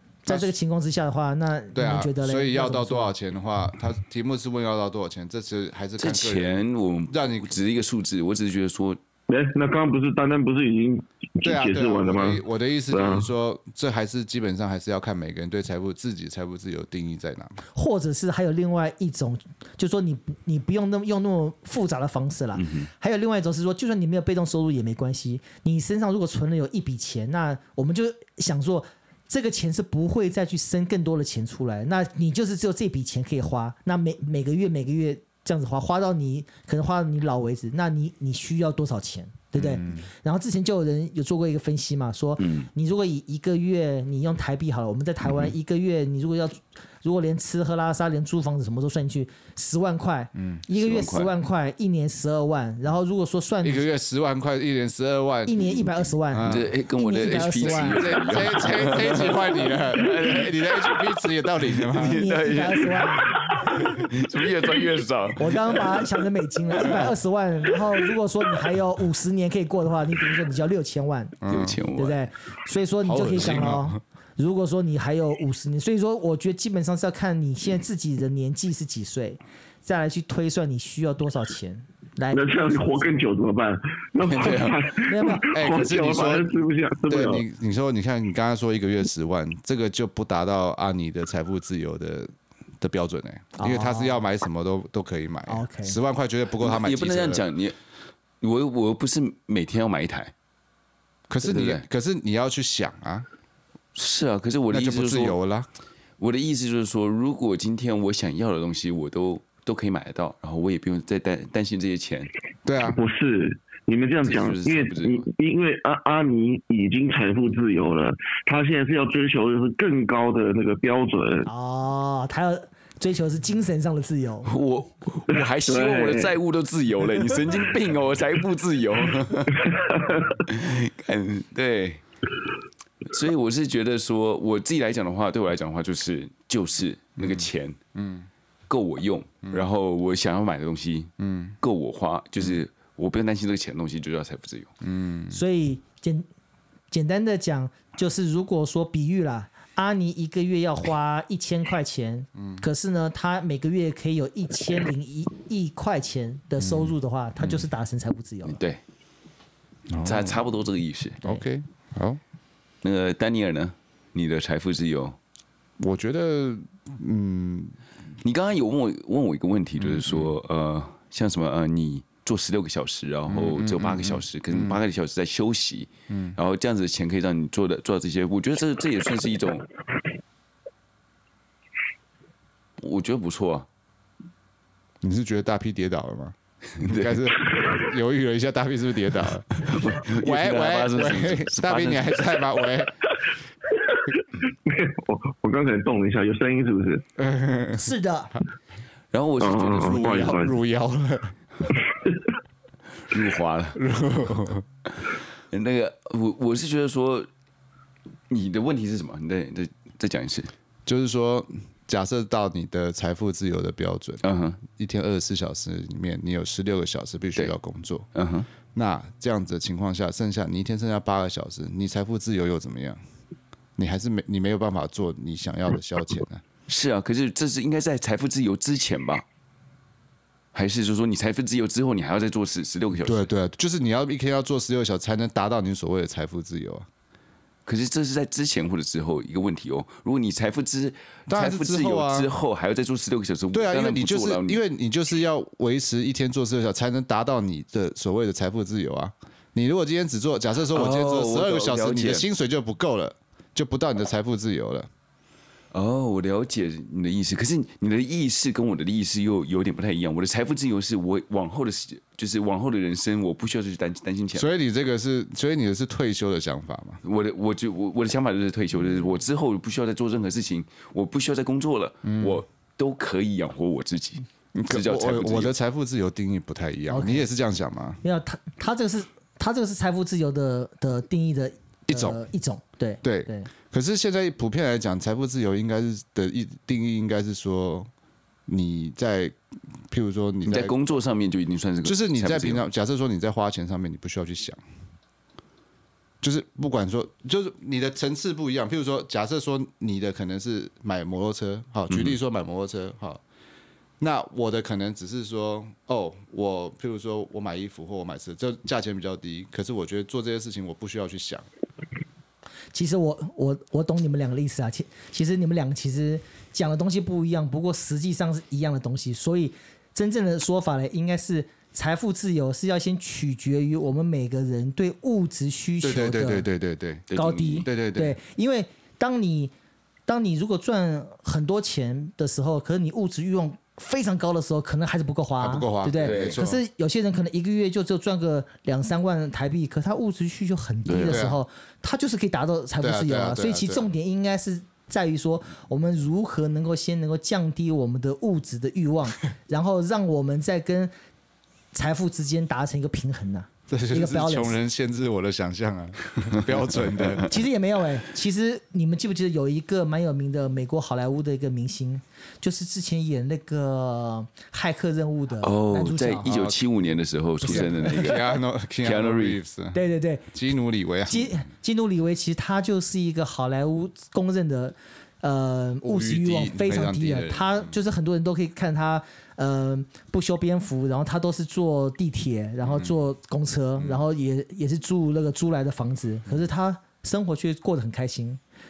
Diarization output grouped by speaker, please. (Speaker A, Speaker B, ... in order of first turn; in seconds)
Speaker A: 0.2-3.1, 17.7-53.9, 55.5-58.1, 62.0-64.0, 65.4-71.4, 72.0-82.8, 85.1-85.5, 93.6-94.2, 95.5-96.0, 121.5-124.5, 145.3-146.3, 146.9-158.6, 197.8-198.3, 276.9-277.3, 278.0-283.5, 312.7-326.5, 327.1-329.5, 330.1-350.9, 351.7-354.6, 357.3-366.4, 367.4-368.2, 369.7-370.3, 371.1-388.4
Speaker B: 1.7-7.5, 11.4-17.6, 39.6-40.0, 53.6-56.7, 57.3-62.3, 71.4-71.8, 73.0-74.0, 85.5-86.6, 87.1-97.4, 101.3-103.3, 104.7-105.7, 112.7-113.0, 137.2-138.3, 141.2-141.6, 144.8-145.4, 152.4-152.6, 156.6-157.6, 159.9-160.4, 161.2-162.2, 165.8-167.8, 169.8-170.3, 173.3-174.8, 176.1-176.4, 185.0-192.9, 197.2-197.8, 199.8-201.3, 203.8-204.6, 210.9-218.1, 218.7-223.0, 223.8-226.4, 233.0-236.9, 241.3-242.3, 243.5-254.9, 264.3-267.0, 272.1-272.4, 274.5-278.0, 281.9-282.2, 283.0-287.9, 288.5-289.4, 289.9-290.7, 291.8-294.6, 296.2-303.2, 304.0-311.5, 325.8-327.1, 327.6-328.2, 335.4-336.6, 341.1-341.4, 342.8-343.9, 353.7-357.3, 366.3-366.6, 367.4-369.8, 370.3-371.4, 375.8-377.8, 383.8-384.0
Speaker C: 6.0-9.0, 22.6-22.9, 42.4-42.7, 50.7-51.3, 56.4-66.2, 66.7-67.1, 71.5-72.2, 84.2-84.8, 96.6-97.8, 98.4-100.3, 101.4-101.8, 104.0-105.3, 106.2-112.3, 114.2-115.3, 124.5-129.7, 130.4-132.0, 133.1-137.8, 138.7-144.7, 158.5-158.8, 160.0-161.3, 162.8-165.2, 168.2-179.7, 182.8-183.7, 186.8-187.2, 189.6-192.4, 199.1-200.4, 203.1-203.8, 205.5-207.3, 208.3-210.5, 214.2-214.6, 218.1-218.5, 226.7-229.2, 230.5-233.3, 237.7-244.6, 250.7-252.3, 255.7-264.5, 267.0-275.5, 290.5-292.6, 301.9-302.2, 327.1-327.7, 336.0-336.4, 340.9-341.2, 365.4-369.4
Speaker D: 9.3-13.3, 82.3-87.4, 112.8-121.5, 125.3-126.3, 129.6-130.4, 193.7-197.0, 199.4-200.5, 201.9-202.2